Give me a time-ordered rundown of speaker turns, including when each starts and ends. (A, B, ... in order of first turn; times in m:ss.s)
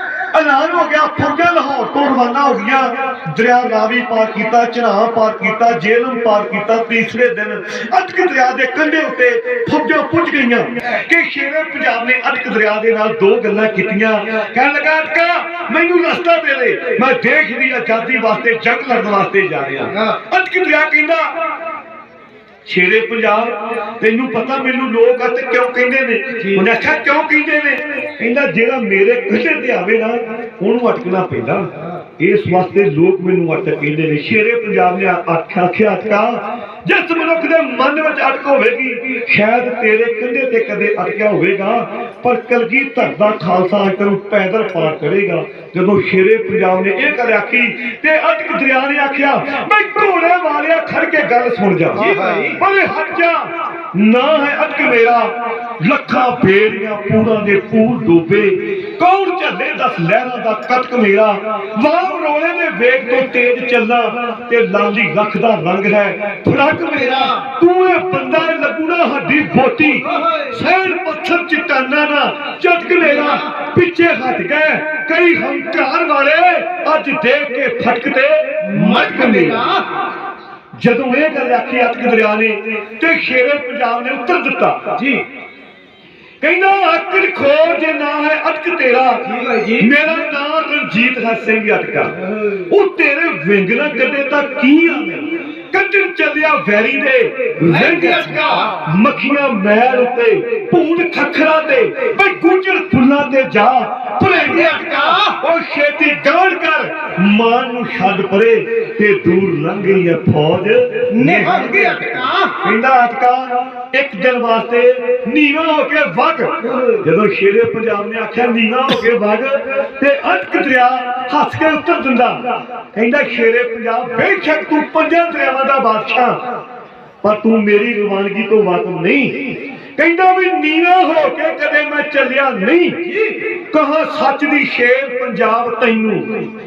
0:00.3-0:21.3 A
0:22.7-1:19.7 A
0:52.0-0:52.6 B
1:06.8-1:07.4 B
1:10.1-1:10.5 B
1:13.0-1:13.4 B
1:18.6-1:20.0 B
1:20.8-1:25.0 A
1:25.0-1:25.2 B
1:26.4-1:29.2 A
1:29.2-1:29.9 B
1:29.8-2:02.4 A
1:37.7-1:38.8 B
1:44.3-1:45.4 B
1:51.1-1:52.6 B
2:03.0-2:06.4 A
2:07.2-2:16.5 A